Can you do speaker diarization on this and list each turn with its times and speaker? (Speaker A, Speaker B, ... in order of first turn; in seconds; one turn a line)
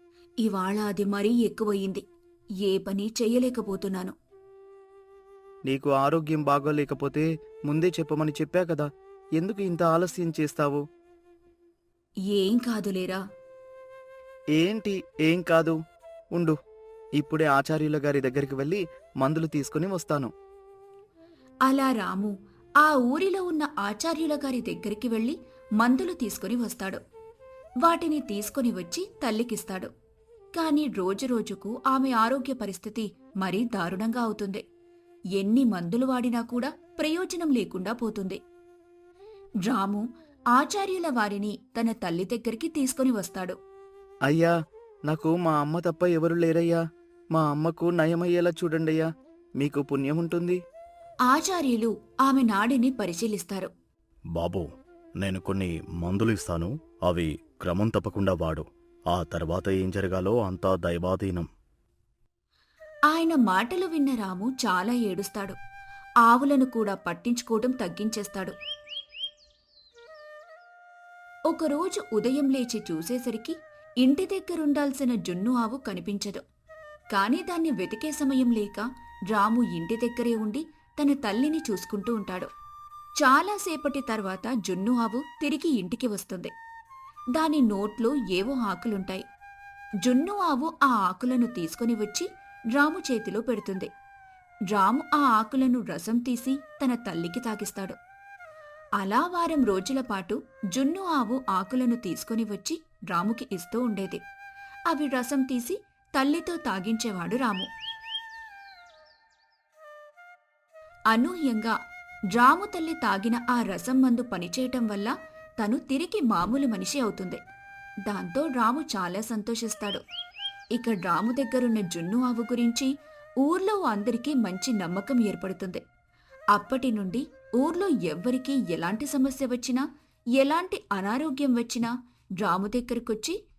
Speaker A: 0.4-2.0
Speaker A: 2.6-4.2
Speaker B: 5.7-10.8
Speaker A: 12.3-13.2
Speaker B: 14.6-15.8
Speaker B: 17.2-20.3
Speaker A: 21.6-27.0
Speaker A: 27.8-29.9
Speaker A: 30.6-34.6
Speaker A: 35.4-38.4
Speaker A: 39.7-43.6
Speaker B: 44.3-44.5
Speaker B: 45.1-46.8
Speaker B: 47.3-49.1
Speaker B: 49.6-50.6
Speaker A: 51.3-53.7
Speaker C: 54.4-54.7
Speaker C: 55.2-61.5
Speaker A: 63.1-65.6
Speaker A: 66.2-68.5
Speaker A: 71.5-76.4
Speaker A: 77.1-82.5
Speaker A: 83.2-86.5
Speaker A: 87.4-89.2
Speaker A: 90.0-93.9
Speaker A: 94.7-98.0
Speaker A: 99.0-104.2
Speaker A: 104.9-107.7
Speaker A: 111.1-111.8
Speaker A: 112.3-117.4
Speaker A: 118.1-120.0
Speaker A: 120.8-122.9
Speaker A: 123.4-125.8
Speaker A: 126.5-129.8
Speaker A: 130.4-133.3